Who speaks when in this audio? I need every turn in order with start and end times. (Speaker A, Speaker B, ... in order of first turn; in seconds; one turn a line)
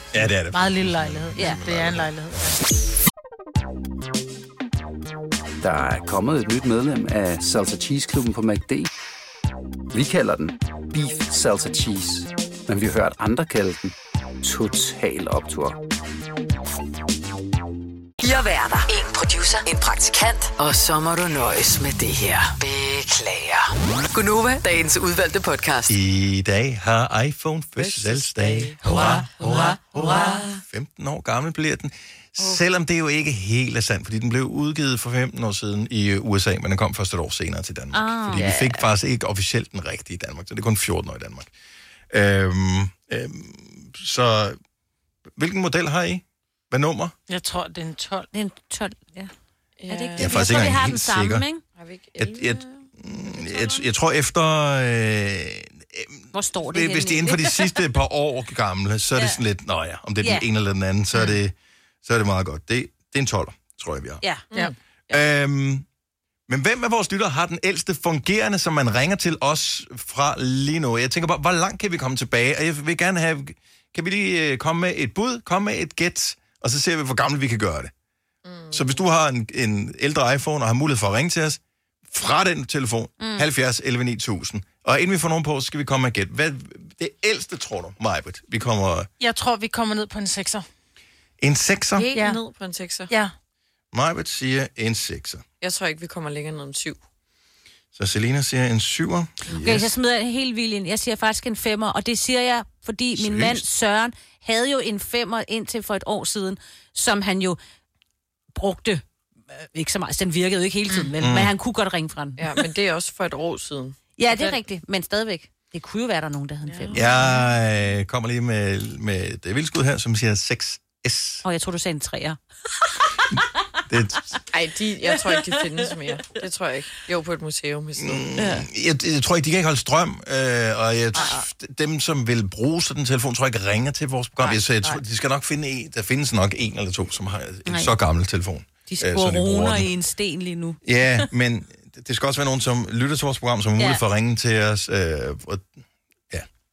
Speaker A: 0.1-2.1
Speaker B: 0.2-2.6
Speaker C: 5.6-8.9
Speaker C: 9.9-15.8
Speaker D: 18.2-26.0
Speaker A: 25.9-41.5
Speaker E: 27.8-29.1
Speaker F: 30.0-30.3
Speaker F: 37.9-38.6
Speaker E: 38.4-38.7
Speaker A: 42.1-44.6
Speaker A: 45.4-47.1
Speaker B: 47.3-48.3
Speaker F: 48.3-49.3
Speaker E: 49.8-50.7
Speaker F: 49.9-51.6
Speaker A: 50.2-51.5
Speaker E: 51.7-52.9
Speaker A: 52.2-64.2
Speaker F: 56.3-57.9
Speaker F: 64.2-64.5
Speaker A: 65.1-65.8
Speaker A: 66.5-77.9
Speaker E: 78.4-79.0
Speaker A: 78.7-89.1
Speaker B: 89.2-90.6
Speaker A: 91.4-92.1
Speaker E: 92.0-93.1
Speaker B: 92.1-92.4
Speaker A: 93.9-95.4
Speaker E: 95.6-97.0
Speaker A: 97.9-99.9
Speaker F: 99.6-107.6
Speaker A: 103.2-103.6
Speaker F: 108.6-109.0
Speaker F: 109.7-112.5
Speaker A: 111.2-111.5
Speaker E: 112.4-114.5
Speaker F: 114.2-117.3
Speaker A: 116.9-121.4
Speaker F: 121.4-122.4
Speaker A: 123.9-124.3
Speaker E: 124.5-128.5
Speaker F: 125.3-125.8
Speaker A: 128.0-139.9
Speaker E: 131.1-131.4
Speaker F: 137.7-137.9
Speaker F: 138.9-141.3
Speaker A: 140.8-145.7